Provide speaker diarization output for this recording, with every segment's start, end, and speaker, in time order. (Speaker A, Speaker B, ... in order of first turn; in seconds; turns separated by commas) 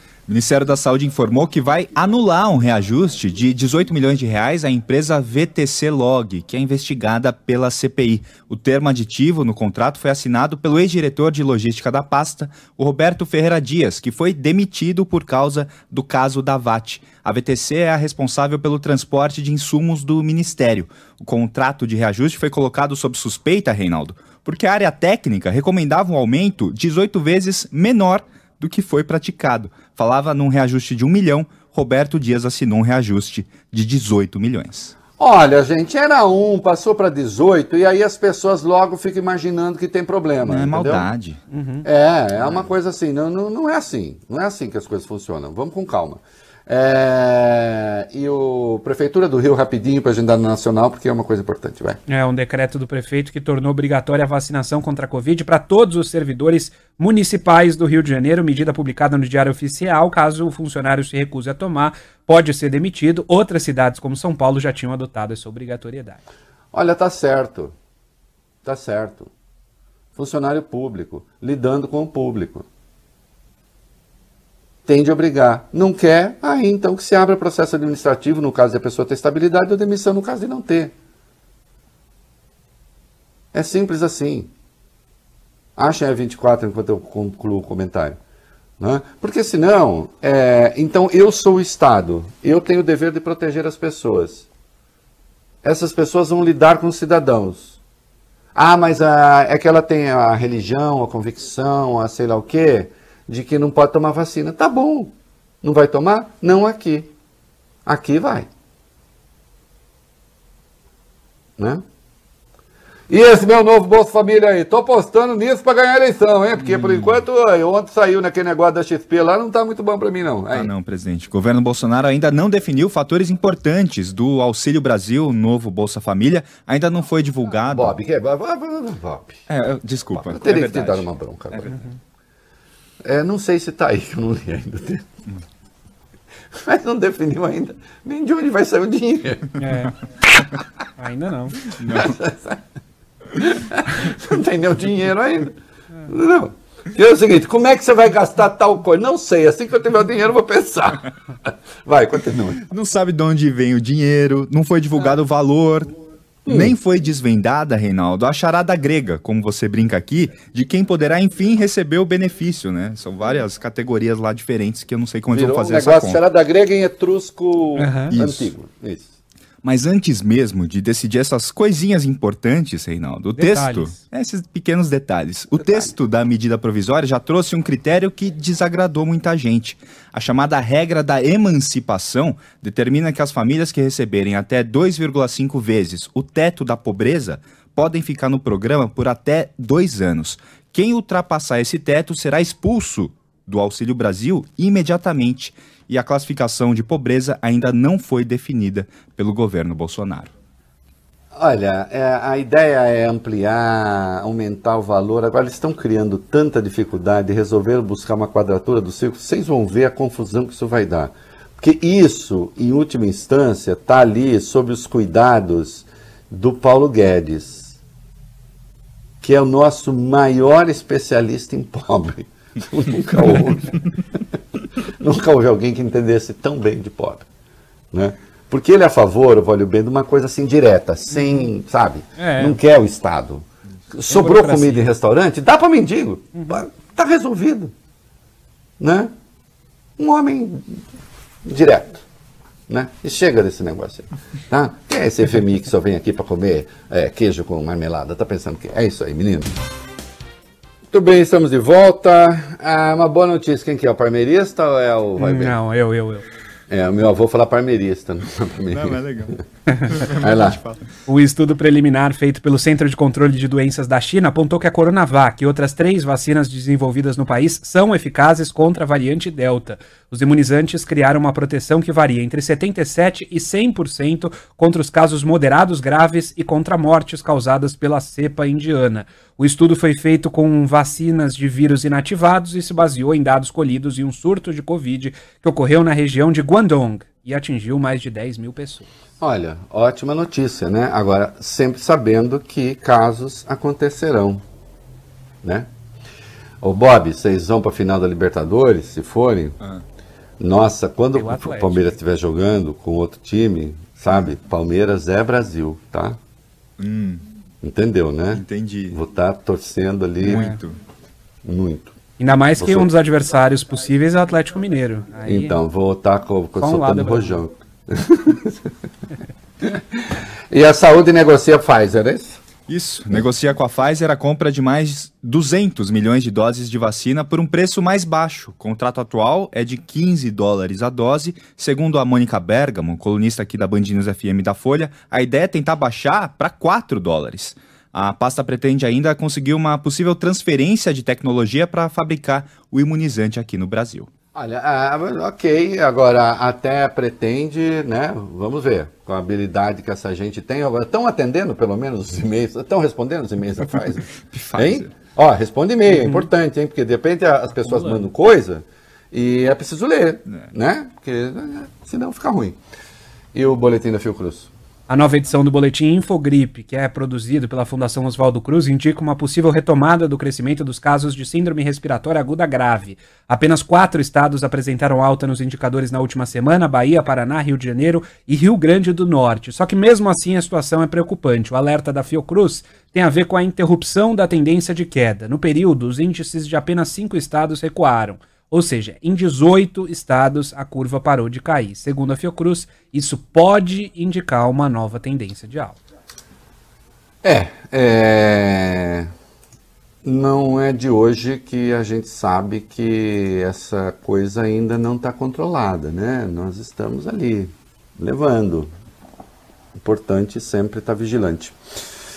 Speaker A: 0.3-34.9, Speaker B: 35.2-41.1, Speaker A: 40.4-41.4, Speaker C: 41.5-41.9, Speaker B: 41.8-52.0, Speaker A: 42.4-42.7, Speaker C: 52.1-66.2, Speaker B: 66.7-67.7, Speaker B: 68.6-69.3, Speaker B: 70.2-72.7, Speaker B: 74.8-80.9, Speaker B: 83.5-84.5, Speaker B: 85.8-88.2, Speaker B: 88.8-94.5, Speaker B: 95.6-97.8, Speaker B: 98.5-107.1, Speaker B: 107.8-108.5, Speaker B: 111.6-111.8, Speaker B: 113.1-120.7, Speaker A: 116.6-117.1, Speaker A: 120.5-127.9, Speaker B: 127.7-129.5, Speaker A: 129.5-131.7, Speaker B: 130.1-131.7, Speaker B: 133.0-135.0, Speaker B: 136.5-139.6, Speaker C: 139.6-139.9, Speaker C: 141.0-141.7, Speaker A: 141.7-142.1, Speaker B: 141.8-142.6, Speaker B: 143.3-145.5, Speaker B: 146.1-152.6, Speaker A: 152.7-155.9, Speaker B: 156.4-156.7, Speaker A: 156.4-166.2, Speaker B: 165.3-169.1, Speaker C: 167.8-168.1, Speaker A: 168.1-168.5, Speaker A: 169.6-200.3, Speaker C: 173.4-174.0, Speaker B: 201.3-217.8, Speaker B: 219.2-224.2, Speaker B: 225.0-227.2, Speaker B: 227.9-237.7, Speaker C: 231.2-231.4, Speaker C: 232.2-232.6, Speaker C: 234.1-234.9, Speaker C: 236.3-236.6, Speaker B: 238.8-239.1, Speaker B: 240.0-240.8, Speaker B: 241.4-242.1, Speaker B: 242.7-249.5, Speaker B: 250.9-255.6, Speaker C: 255.2-256.2, Speaker B: 256.7-259.4, Speaker A: 258.7-260.9, Speaker C: 259.7-260.0, Speaker B: 260.0-260.6, Speaker C: 261.1-288.9, Speaker B: 289.2-294.4, Speaker B: 295.4-295.7, Speaker B: 296.6-299.6, Speaker B: 300.4-306.2, Speaker C: 301.1-301.9, Speaker A: 306.8-307.2, Speaker B: 307.6-310.6, Speaker A: 308.3-309.0, Speaker A: 310.2-310.8, Speaker C: 310.3-310.5, Speaker B: 311.4-311.9, Speaker C: 312.2-315.6, Speaker B: 312.6-312.9, Speaker B: 315.3-318.7, Speaker C: 316.6-317.4, Speaker B: 319.6-322.4, Speaker A: 322.7-344.1, Speaker B: 344.3-362.6, Speaker A: 354.2-354.9, Speaker C: 355.9-356.3, Speaker C: 357.6-358.0, Speaker B: 363.3-364.5, Speaker C: 364.9-395.8, Speaker B: 397.2-399.1, Speaker B: 400.0-408.7, Speaker B: 409.8-411.6